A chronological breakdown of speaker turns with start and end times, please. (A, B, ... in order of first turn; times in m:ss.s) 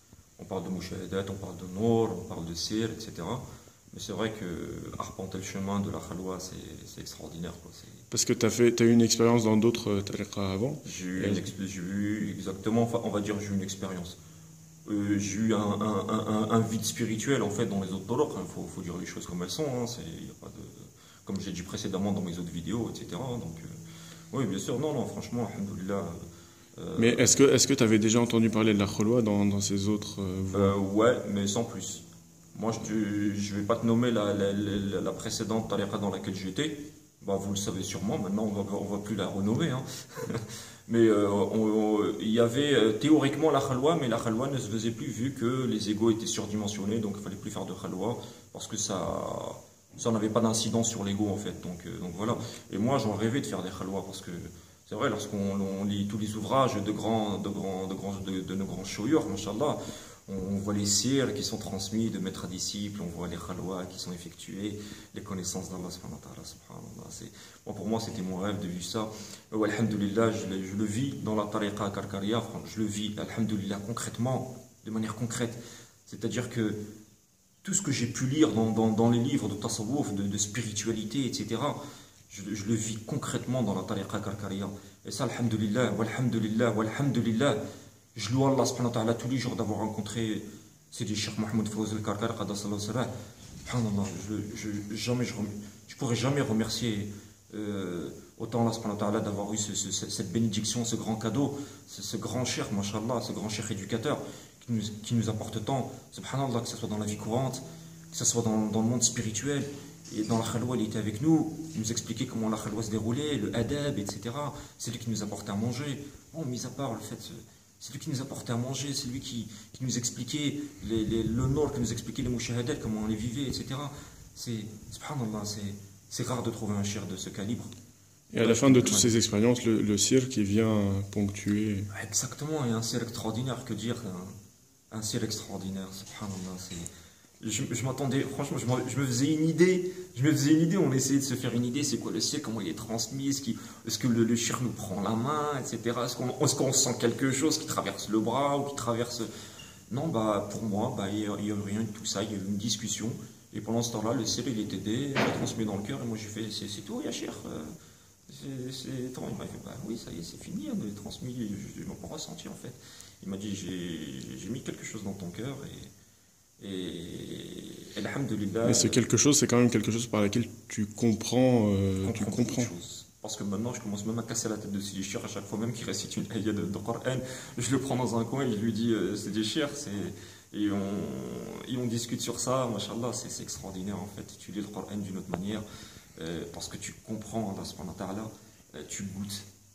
0:00.4-0:08.0 A
0:08.1-0:11.5 B
0:10.8-0:14.2 A
0:14.9-0:23.7 A
0:24.3-0:26.2 A
0:26.8-0:27.4 A
0:27.0-0:30.8 B
0:30.5-1:16.8 A
1:17.6-1:27.6 A
1:28.2-1:33.1 A
1:33.6-2:07.7 A
2:08.3-2:11.9 B
2:08.4-2:09.2 A
2:11.9-2:14.4 A
2:14.9-2:16.9 A
2:17.4-2:29.3 A
2:29.9-2:37.7 A
2:38.3-2:45.9 A
2:46.6-2:49.0 A
2:48.6-2:52.7 B
2:52.0-3:05.6 A
3:06.2-3:09.5 A